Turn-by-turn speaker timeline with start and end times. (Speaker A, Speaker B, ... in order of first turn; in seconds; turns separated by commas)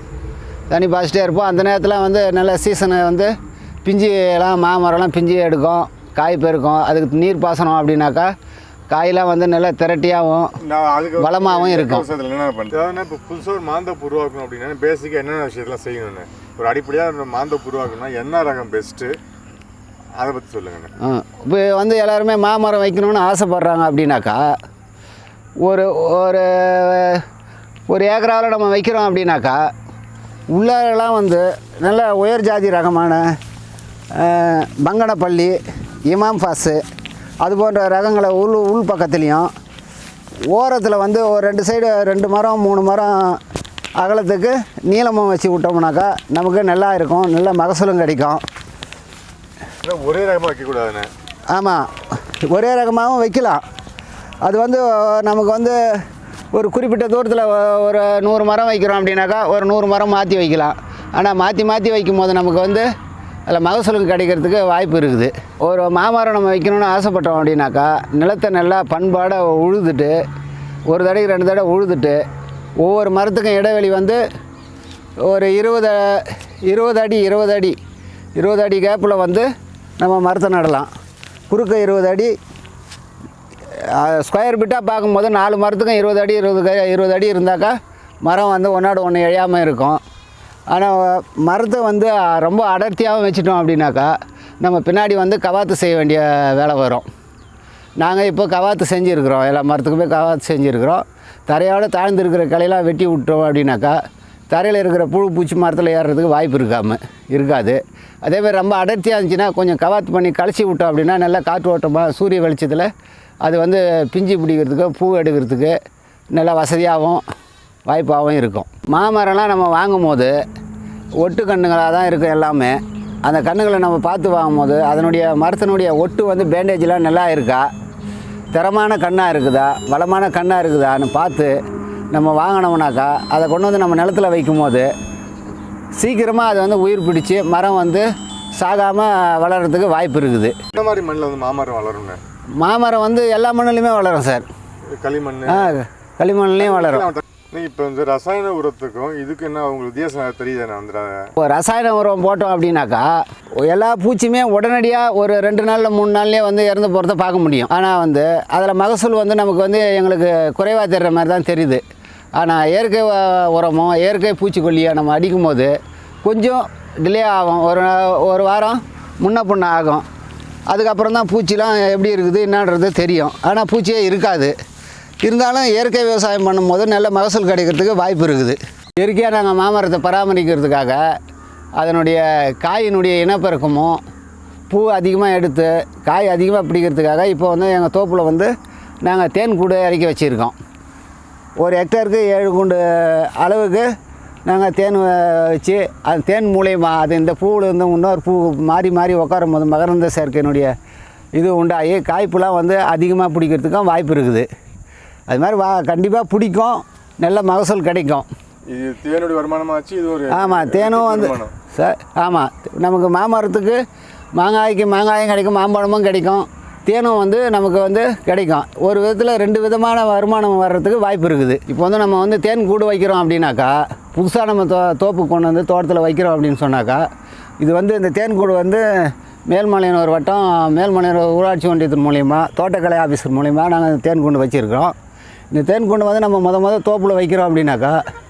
Speaker A: 0.7-3.3, Speaker A: 3.8-8.3, Speaker A: 8.9-10.5, Speaker B: 10.6-19.1, Speaker A: 11.2-12.1, Speaker B: 20.1-20.9, Speaker A: 21.0-24.5, Speaker A: 25.6-27.2, Speaker A: 27.9-29.6, Speaker A: 30.5-33.3, Speaker A: 34.1-36.8, Speaker A: 37.4-39.5, Speaker A: 40.5-43.4, Speaker A: 44.0-48.4, Speaker B: 49.8-51.1, Speaker A: 51.5-53.6, Speaker A: 54.4-55.8, Speaker A: 56.5-62.9, Speaker A: 63.5-70.1, Speaker A: 70.9-72.2, Speaker A: 72.8-74.2, Speaker A: 75.2-77.8, Speaker A: 78.4-79.5, Speaker A: 80.0-80.9, Speaker A: 81.5-82.3, Speaker A: 83.8-90.0, Speaker A: 90.7-97.0, Speaker A: 98.0-104.0, Speaker A: 104.5-112.9, Speaker A: 113.4-115.8, Speaker A: 116.3-117.2, Speaker A: 117.9-120.3, Speaker A: 121.2-127.7, Speaker A: 128.5-131.5, Speaker A: 132.1-134.9, Speaker A: 135.9-140.6, Speaker B: 140.7-142.2, Speaker A: 142.6-144.4, Speaker B: 145.0-145.7, Speaker A: 145.5-147.1, Speaker B: 146.6-151.3, Speaker A: 151.4-153.2, Speaker A: 153.7-161.8, Speaker A: 162.4-165.7, Speaker A: 166.2-170.0, Speaker A: 170.7-174.5, Speaker A: 175.2-181.0, Speaker A: 181.8-184.0, Speaker A: 184.7-188.5, Speaker A: 189.0-190.6, Speaker A: 191.6-193.9, Speaker A: 194.4-200.7, Speaker A: 201.3-204.5, Speaker A: 205.3-208.3, Speaker B: 208.7-211.5, Speaker A: 210.3-213.8, Speaker A: 214.4-227.0, Speaker A: 227.6-234.9, Speaker A: 235.5-238.0